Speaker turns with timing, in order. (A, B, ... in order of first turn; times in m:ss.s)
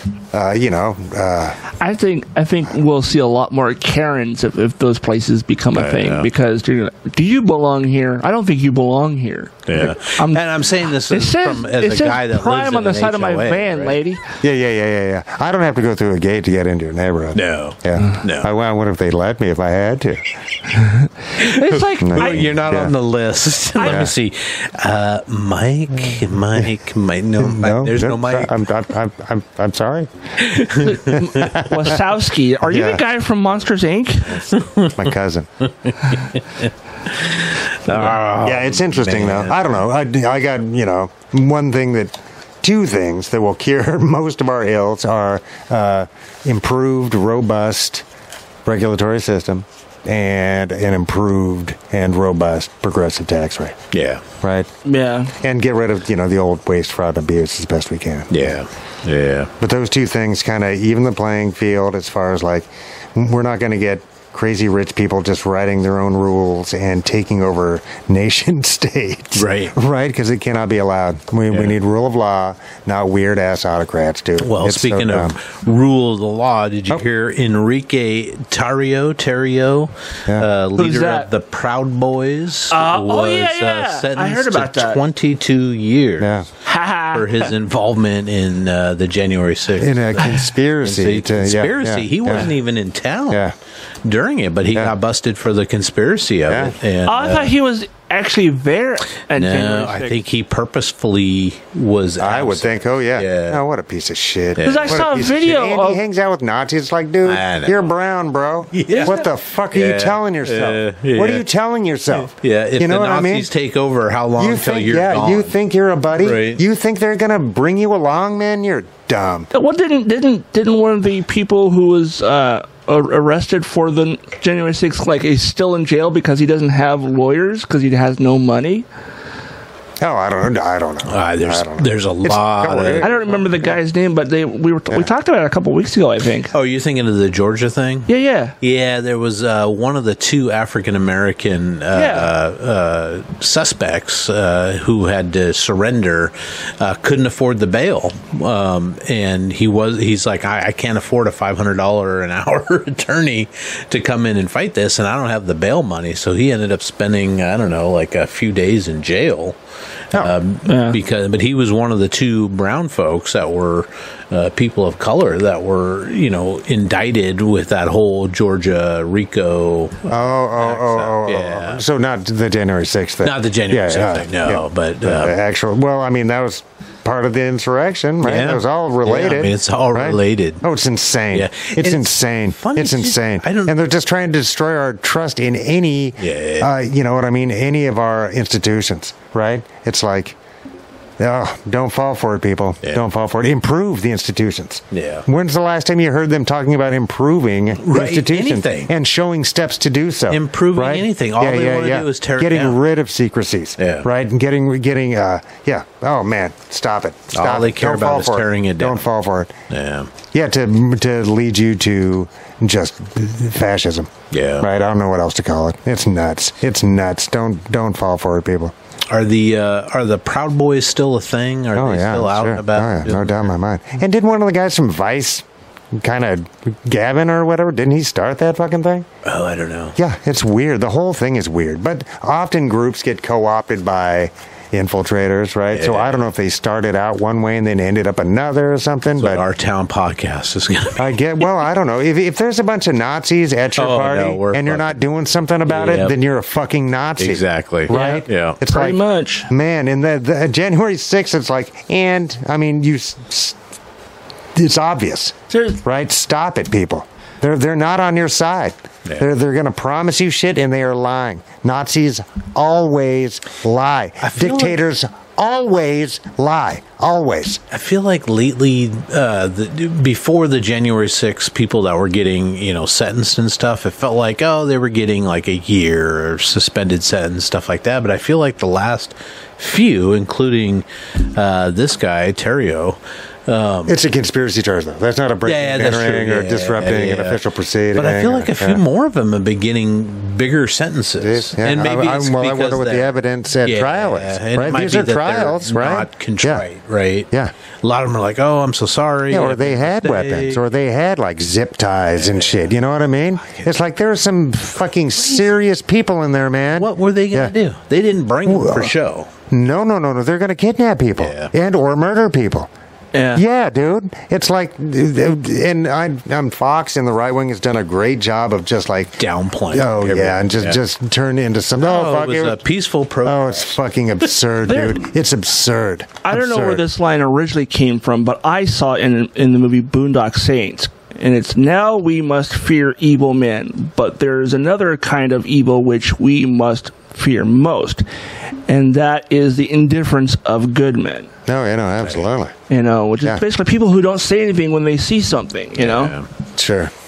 0:00.3-0:01.6 A
0:01.8-0:10.4 B
0:05.7-0:06.3 C
0:09.7-0:14.0 C
0:11.0-0:14.2 B
0:14.4-0:20.2 A
0:17.3-0:18.5 C
0:20.8-0:22.5 B
0:21.4-0:28.6 C
0:22.0-0:22.9 A
0:23.8-0:24.1 B
0:23.8-0:24.1 A
0:27.4-0:30.1 A
0:30.4-0:31.5 C
0:30.6-0:32.0 A
0:30.8-0:34.4 B
0:32.7-0:33.0 A
0:34.3-0:35.5 A
0:34.5-0:35.0 C
0:35.8-0:39.6 C
0:38.0-0:48.0 A
0:48.6-0:53.8 A
0:53.9-0:54.2 C
0:54.4-0:54.7 A
0:54.8-0:55.3 B
0:55.4-0:58.4 A
0:58.3-0:59.5 C
0:59.6-1:15.3 A
1:09.4-1:09.7 C
1:11.5-1:11.8 C
1:14.4-1:26.3 C
1:20.8-1:21.3 B
1:22.7-1:25.0 B
1:26.2-1:26.4 A
1:26.6-1:27.5 B
1:27.1-1:33.4 C
1:29.8-1:32.5 A
1:34.0-1:37.5 C
1:36.5-1:36.7 A
1:37.0-1:40.2 B
1:39.3-1:43.6 C
1:42.2-1:53.5 A
1:44.6-1:45.0 C
1:44.6-1:46.0 B
1:47.2-1:47.9 C
1:48.7-1:51.4 C
1:52.1-1:55.5 C
1:54.4-1:59.5 A
1:56.2-1:56.6 C
1:59.5-2:08.8 B
2:10.0-2:13.2 A
2:11.1-2:13.4 C
2:13.0-2:16.5 B
2:16.5-2:18.1 C
2:18.1-2:18.5 B
2:18.6-2:39.6 C
2:21.9-2:22.3 B
2:40.1-2:51.8 C
2:40.6-2:41.0 B
2:50.1-3:10.4 A
2:53.2-2:55.4 C
2:58.2-3:00.6 C
3:01.3-3:03.8 C
3:06.2-3:06.7 C
3:11.2-3:29.5 A
3:14.9-3:15.2 C
3:17.8-3:18.9 C
3:20.3-3:22.8 C
3:23.8-3:24.1 C
3:27.3-3:29.0 C
3:29.7-3:30.1 C
3:30.3-3:38.7 A
3:34.3-3:34.7 C
3:39.1-3:43.5 C
3:41.8-3:49.1 A
3:49.2-3:49.9 C
3:50.0-3:59.4 A
3:55.7-3:56.2 C
3:59.2-4:01.2 C
4:01.0-4:09.0 A
4:03.8-4:05.0 C
4:05.7-4:06.2 C
4:07.2-4:08.6 C
4:07.9-4:09.5 B
4:09.5-4:13.6 A
4:14.6-4:27.6 A
4:15.5-4:15.8 B
4:24.2-4:24.8 C
4:27.7-4:44.0 C
4:43.9-4:48.8 A
4:45.4-4:47.4 C
4:47.9-4:57.3 C
4:51.2-4:56.6 A
4:57.8-5:00.6 C
4:59.3-5:07.5 A
5:02.2-5:02.7 C
5:03.4-5:03.7 C
5:06.7-5:09.3 C
5:08.4-5:08.9 A
5:09.5-5:12.7 A
5:11.2-5:11.5 C
5:13.1-5:13.4 B
5:13.3-5:19.2 A
5:19.2-5:20.8 C
5:19.7-5:22.6 A
5:21.8-5:23.8 C
5:23.2-5:26.8 A
5:24.7-5:25.0 B
5:26.2-5:38.0 B
5:38.6-5:41.3 B
5:41.4-5:42.5 A
5:42.7-5:46.1 B
5:45.8-5:46.3 C
5:46.6-5:46.9 A